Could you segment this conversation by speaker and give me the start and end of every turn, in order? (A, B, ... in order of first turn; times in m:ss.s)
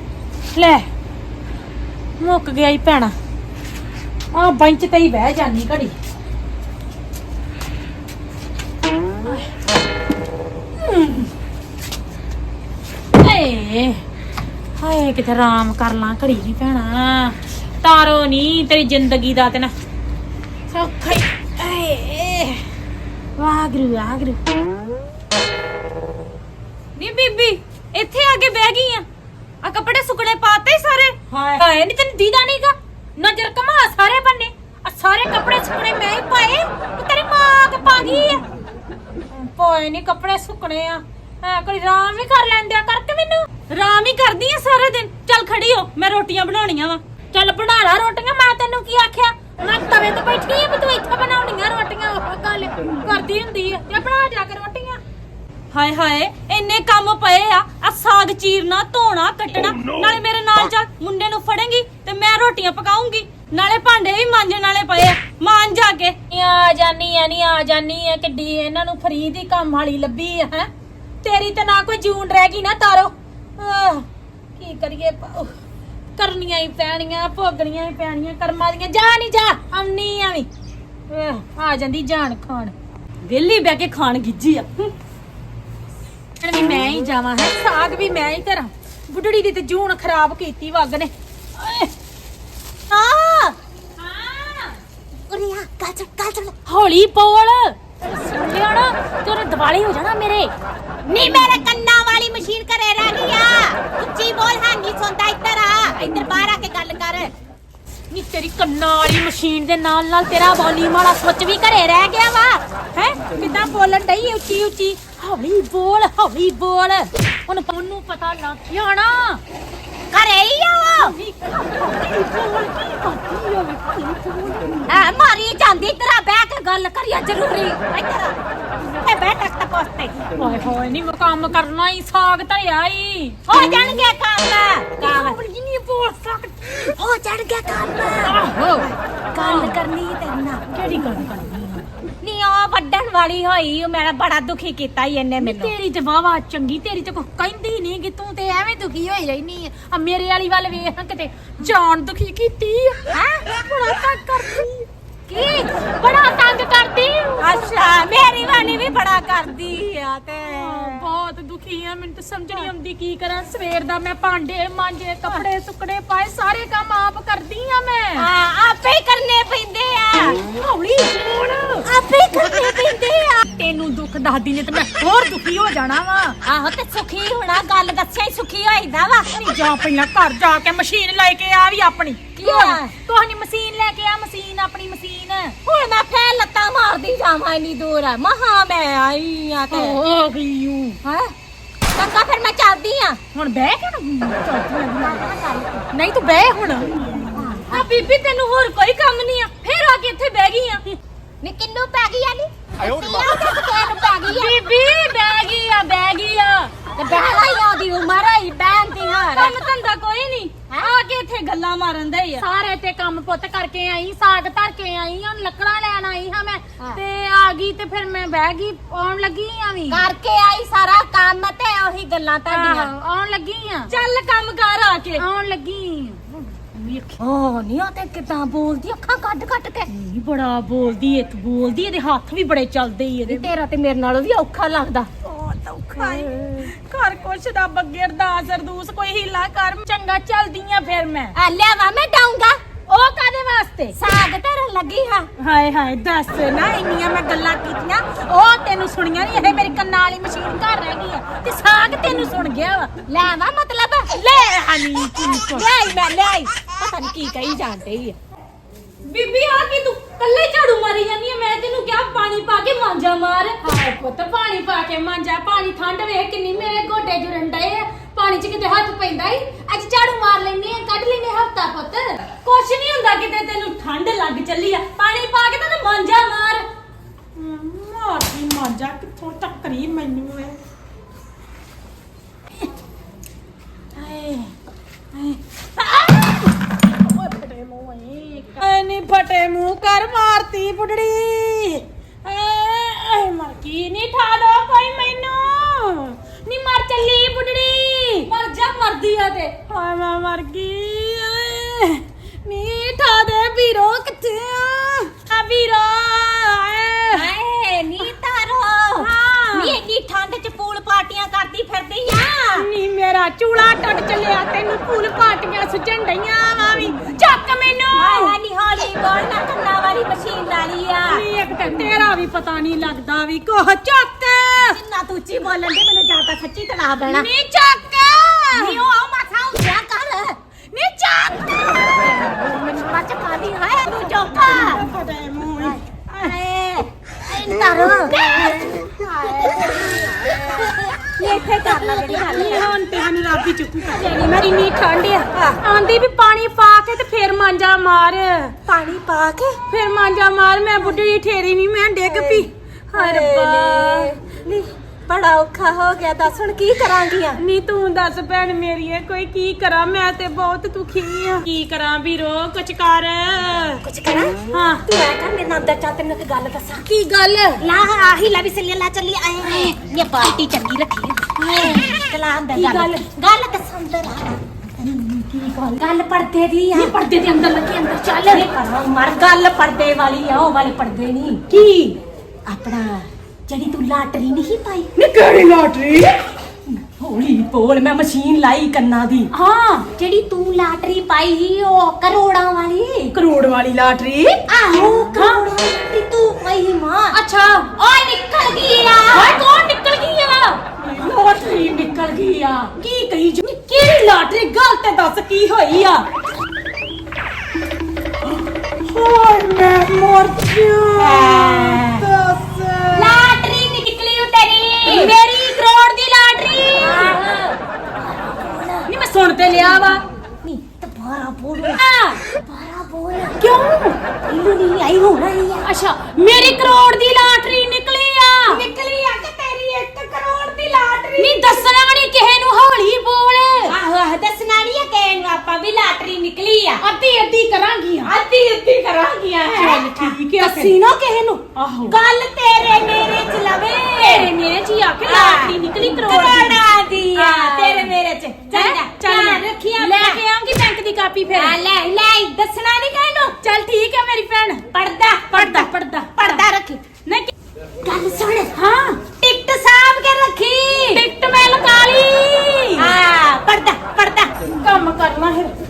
0:00.5-0:00.9 A
0:02.2-0:03.1 A
0:04.3-0:05.9 A
0:09.2-0:09.5 A
0:10.8-0:11.3 A
0:13.1-0:14.0 A
0:14.8-0:19.7 A
0:20.7-0:22.6 A
0:23.4-0:24.4 A
0:27.0-0:29.0 B
0:29.6-0:31.6 B
0:31.5-0:38.4 A
0:37.6-0:38.4 B
0:39.3-0:43.4 A
0:43.7-0:47.0 B
0:47.3-0:55.0 A
0:55.7-1:06.2 B
1:06.3-1:10.7 A
1:11.2-1:14.0 A
1:14.6-1:15.5 A
1:16.2-1:20.5 A
1:21.1-1:22.7 A
1:23.2-1:24.9 B
1:26.4-1:31.9 A
1:32.9-1:33.5 C
1:34.0-1:34.8 A
1:35.3-1:36.5 C
1:36.6-1:40.5 A
1:41.1-1:47.3 C
1:48.1-1:52.2 A
1:52.9-1:59.4 A
2:00.1-2:01.1 C
2:01.0-2:04.8 A
2:04.9-2:08.4 C
2:09.0-2:10.1 C
2:10.4-2:13.7 A
2:13.5-2:15.4 C
2:15.0-2:16.5 A
2:17.0-2:20.6 C
2:18.2-2:19.8 A
2:20.7-2:21.8 A
2:22.2-2:25.7 C
2:25.4-2:37.8 A
2:33.1-2:33.4 C
2:37.4-2:41.0 C
2:40.4-2:48.3 A
2:48.2-2:50.4 C
2:50.4-2:51.9 A
2:51.9-2:53.4 C
2:52.4-2:52.6 A
2:53.4-2:56.4 A
2:56.4-2:59.3 C
2:59.3-3:05.6 A
3:02.4-3:02.9 C
3:05.6-3:10.0 C
3:09.7-3:11.0 A
3:11.0-3:11.3 C
3:11.9-3:13.2 C
3:13.3-3:15.2 A
3:15.0-3:15.8 C
3:15.9-3:16.9 A
3:17.3-3:17.8 C
3:17.7-3:20.8 B
3:21.4-3:24.5 C
3:23.6-3:26.7 A
3:26.9-3:29.7 C
3:27.2-3:27.5 B
3:28.9-3:32.4 B
3:32.4-3:40.0 A
3:39.9-3:42.9 C
3:42.5-3:43.9 A
3:43.9-3:45.2 B
3:45.2-3:47.2 A
3:47.2-3:49.9 C
3:49.9-3:53.5 A
3:53.3-3:55.1 C
3:55.2-4:01.3 A
3:56.0-3:56.4 C
4:01.3-4:02.6 C
4:02.9-4:04.0 A
4:04.0-4:05.3 C
4:05.4-4:12.9 A
4:13.1-4:14.1 C
4:14.1-4:15.7 A
4:15.5-4:18.2 C
4:19.0-4:23.6 B
4:23.6-4:32.2 A
4:32.4-4:36.6 B
4:37.4-4:40.6 A
4:43.9-4:44.5 A
4:45.1-4:58.3 A
4:58.3-4:59.5 B
4:59.6-5:05.1 A
5:05.6-5:06.0 B
5:06.4-5:07.3 A
5:07.1-5:12.6 C
5:09.0-5:09.8 A
5:12.5-5:18.4 A
5:17.9-5:21.2 C
5:21.1-5:24.8 A
5:24.6-5:27.3 C
5:27.0-5:28.8 A
5:28.5-5:30.4 C
5:30.7-5:32.5 A
5:32.4-5:34.8 C
5:34.5-5:36.3 A
5:35.6-5:42.7 C
5:37.4-5:39.8 A
5:41.3-5:48.5 A
5:45.3-5:45.6 C
5:48.7-5:49.6 C
5:49.7-5:54.1 A
5:52.1-5:57.4 C
5:57.4-6:03.8 A
6:03.8-6:06.8 C
6:04.5-6:04.8 A
6:06.8-6:07.6 A
6:07.6-6:14.4 C
6:09.4-6:09.7 A
6:11.4-6:12.0 A
6:12.5-6:13.0 A
6:14.8-6:15.8 A
6:15.7-6:16.9 C
6:16.7-6:18.4 A
6:18.3-6:21.4 C
6:21.5-6:22.0 A
6:22.5-6:24.9 C
6:25.0-6:26.2 A
6:26.7-6:29.3 C
6:29.3-6:29.9 A
6:30.0-6:33.1 C
6:33.1-6:34.4 A
6:34.5-6:37.1 C
6:35.1-6:35.4 A
6:37.1-6:37.7 A
6:37.8-6:39.4 C
6:39.1-6:40.6 A
6:41.4-6:45.1 A
6:45.0-6:46.0 B
6:48.8-6:53.3 A
6:51.0-6:52.0 C
6:52.9-6:55.1 C
6:54.8-6:57.1 A
6:56.7-6:58.9 C
6:58.9-7:00.0 A
7:00.4-7:03.4 C
7:01.7-7:02.2 A
7:03.4-7:04.0 A
7:04.3-7:05.6 C
7:05.6-7:08.6 A
7:08.5-7:11.5 C
7:11.2-7:13.7 A
7:13.6-7:16.8 C
7:16.8-7:18.1 A
7:18.0-7:24.3 C
7:19.5-7:20.7 A
7:21.5-7:22.0 A
7:24.0-7:26.6 A
7:25.0-7:30.2 C
7:27.2-7:27.9 A
7:28.5-7:31.6 A
7:31.3-7:33.4 C
7:33.4-7:34.6 A
7:34.7-7:36.8 C
7:35.3-7:36.4 A
7:37.8-7:38.5 C
7:38.5-7:39.0 A
7:39.2-7:41.0 C
7:40.9-7:42.9 A
7:42.8-7:44.3 C
7:44.6-7:45.5 A